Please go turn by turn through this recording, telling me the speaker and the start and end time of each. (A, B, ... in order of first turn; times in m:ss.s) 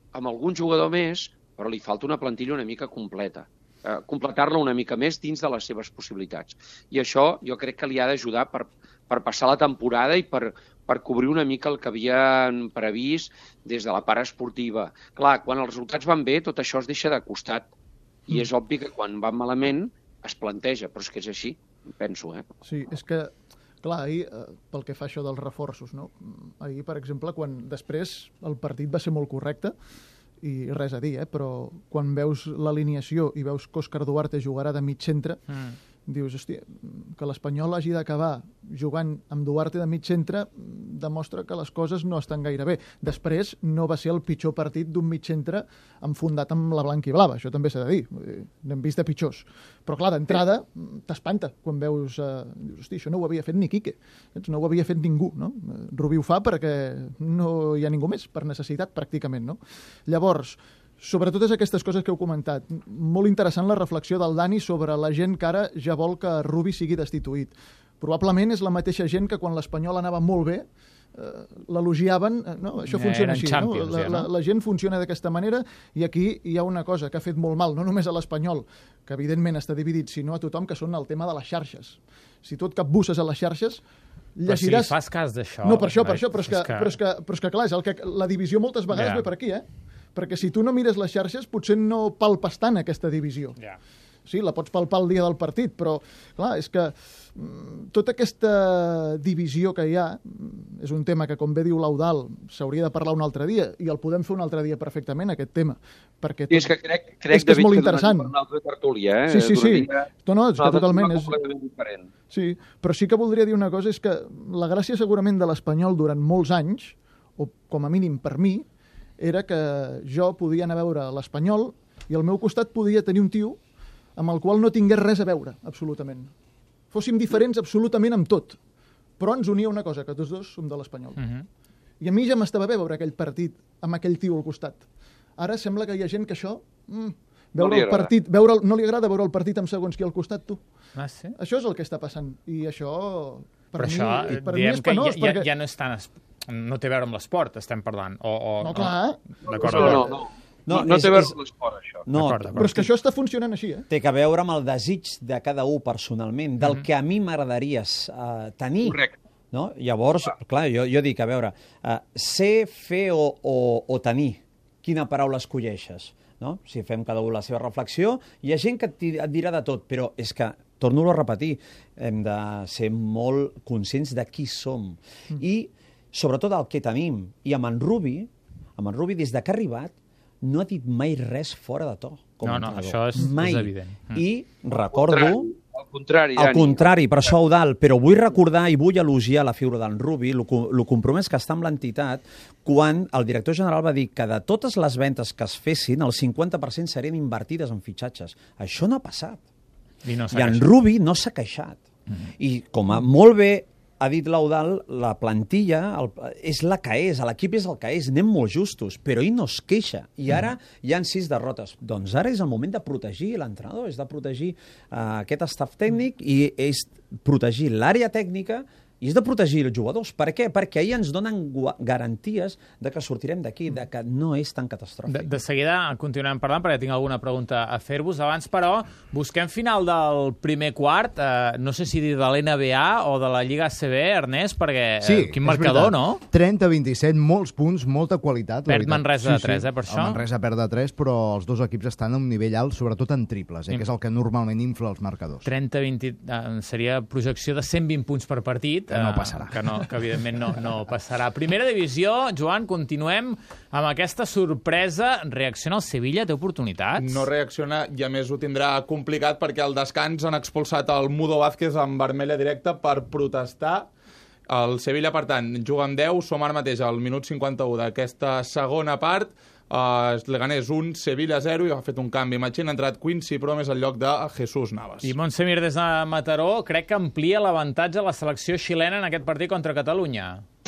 0:00.1-0:17.7 A
0:18.3-0:22.5 A
0:22.6-0:29.7 B
0:30.4-0:35.4 B
0:35.5-0:35.8 C
0:36.1-1:23.8 B
1:12.9-1:14.3 C
1:24.4-1:25.0 B
1:24.5-1:26.9 C
1:25.6-1:33.6 B
1:28.9-1:29.2 C
1:34.3-1:46.7 B
1:46.5-1:50.1 A
1:47.3-1:48.3 B
1:49.3-1:51.3 B
1:50.6-1:52.1 A
1:52.3-1:58.7 B
1:59.2-2:03.6 B
2:04.2-2:06.3 B
2:06.9-2:08.6 B
2:09.2-2:11.2 B
2:11.2-2:11.5 C
2:12.0-2:14.8 B
2:15.4-2:20.7 B
2:17.6-2:18.1 A
2:21.0-2:21.4 C
2:21.4-2:25.5 B
2:23.8-2:30.0 C
2:28.6-2:30.2 B
2:29.6-2:32.1 A
2:30.7-2:31.4 D
2:32.1-2:32.9 D
2:32.2-2:32.8 C
2:32.6-2:33.9 B
2:33.9-2:39.0 D
2:38.8-2:39.2 A
2:39.5-3:05.5 D
3:02.4-3:04.2 C
3:04.8-3:06.9 A
3:06.4-3:19.4 D
3:20.0-3:20.7 C
3:20.3-3:21.8 D
3:22.4-3:45.3 D
3:45.1-3:56.2 C
3:55.0-4:05.5 E
3:58.7-4:00.2 C
4:05.4-4:17.3 C
4:08.9-4:10.0 E
4:17.0-4:23.9 F
4:24.5-4:35.2 F
4:35.0-4:40.4 C